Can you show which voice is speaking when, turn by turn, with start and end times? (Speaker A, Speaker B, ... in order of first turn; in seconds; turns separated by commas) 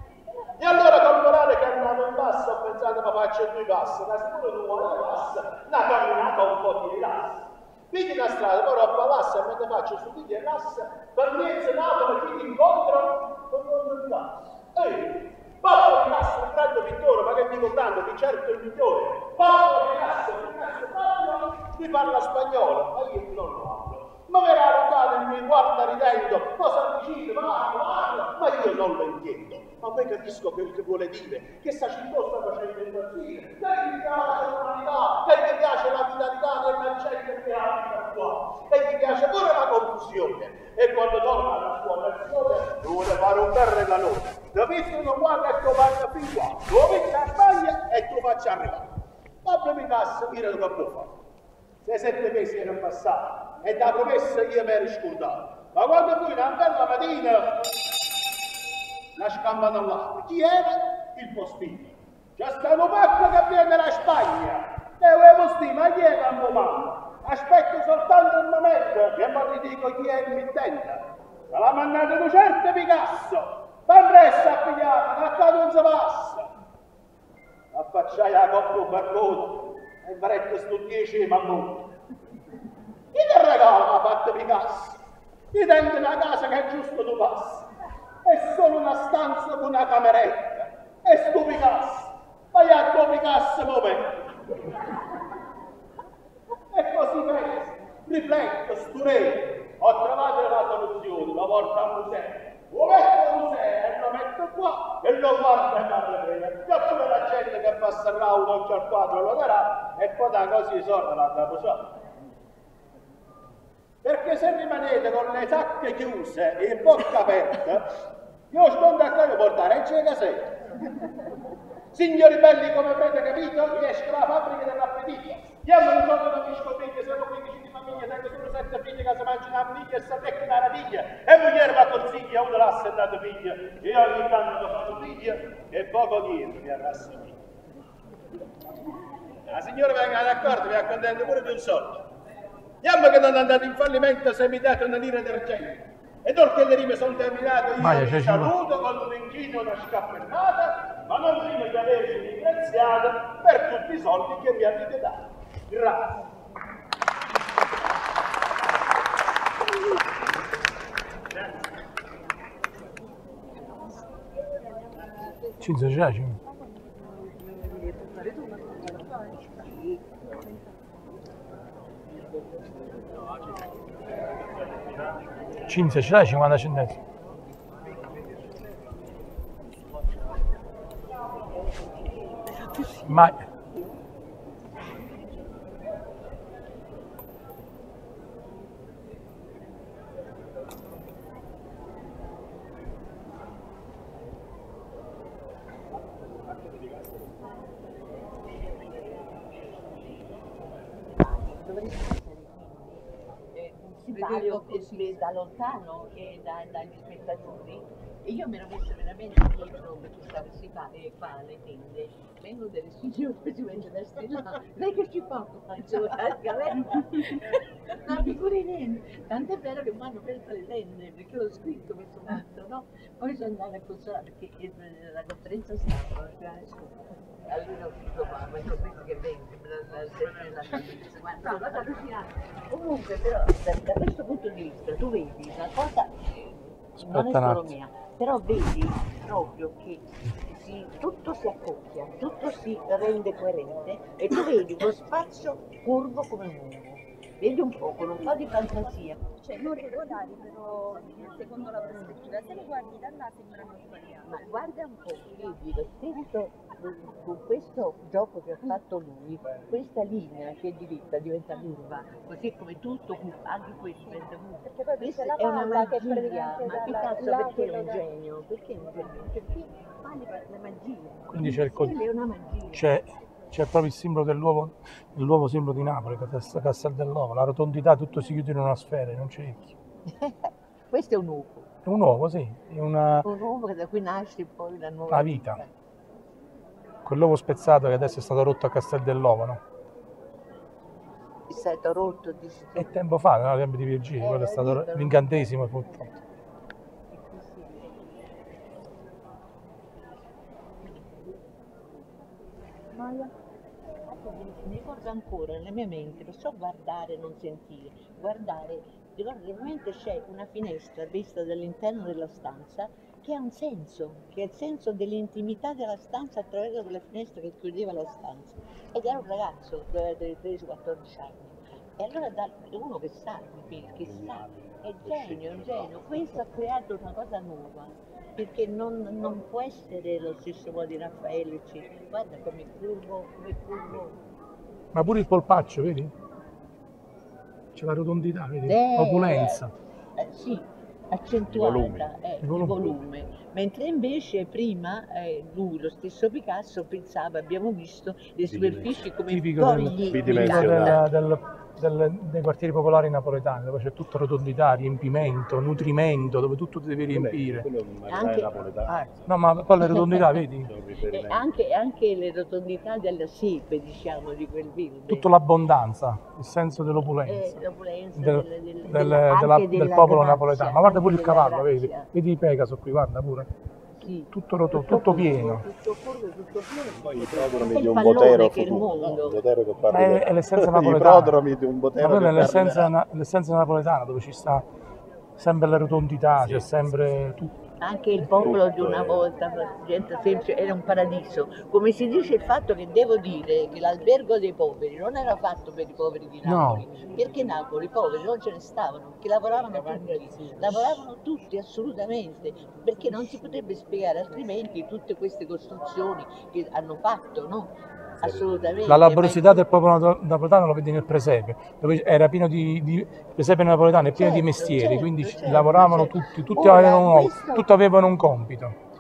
Speaker A: 0.6-48.9, Speaker A: 49.4-51.2, Speaker A: 51.8-57.6, Speaker A: 59.1-76.5, Speaker A: 77.7-81.9, Speaker A: 83.1-85.0, Speaker A: 85.5-87.7, Speaker A: 88.2-94.5, Speaker A: 96.7-111.9, Speaker A: 114.0-118.0, Speaker A: 118.5-120.6, Speaker A: 121.9-137.4, Speaker A: 139.5-142.0, Speaker A: 142.8-156.2, Speaker B: 147.8-148.5, Speaker B: 165.6-166.4, Speaker B: 175.7-177.0, Speaker C: 182.7-183.1, Speaker B: 183.0-183.4, Speaker A: 196.3-197.6, Speaker A: 198.6-200.2, Speaker C: 201.1-203.0, Speaker C: 203.5-249.3, Speaker D: 204.1-205.1, Speaker B: 237.0-237.7, Speaker D: 252.0-254.1, Speaker C: 254.2-272.9, Speaker D: 264.8-267.8, Speaker B: 271.3-271.9, Speaker B: 272.7-279.7, Speaker C: 280.1-281.7, Speaker B: 281.8-283.2, Speaker C: 283.2-285.7, Speaker B: 285.1-285.6, Speaker B: 287.0-289.6, Speaker C: 291.5-292.9, Speaker B: 292.8-296.1, Speaker C: 294.2-295.4, Speaker C: 297.1-298.0, Speaker C: 300.8-301.3, Speaker C: 302.9-303.3, Speaker C: 304.1-334.2, Speaker E: 323.7-326.6, Speaker B: 334.9-336.1, Speaker B: 337.7-339.7, Speaker C: 338.6-351.0, Speaker E: 341.4-342.1, Speaker B: 342.4-342.9, Speaker E: 348.4-349.1, Speaker B: 349.3-357.7, Speaker E: 350.1-351.0, Speaker E: 357.0-359.8, Speaker C: 358.1-359.1, Speaker B: 359.3-360.7, Speaker C: 359.7-360.4, Speaker E: 360.5-361.4, Speaker C: 361.1-365.3, Speaker B: 365.1-367.6, Speaker C: 367.2-372.1, Speaker B: 368.2-373.5, Speaker C: 374.0-379.4, Speaker B: 374.3-375.6, Speaker E: 376.9-382.9, Speaker B: 379.9-381.4, Speaker B: 381.9-384.6, Speaker B: 385.4-387.5, Speaker E: 386.4-386.7, Speaker C: 387.8-409.6, Speaker E: 388.4-389.3, Speaker B: 396.4-396.9, Speaker E: 408.2-408.9, Speaker B: 408.9-418.7, Speaker C: 414.1-417.7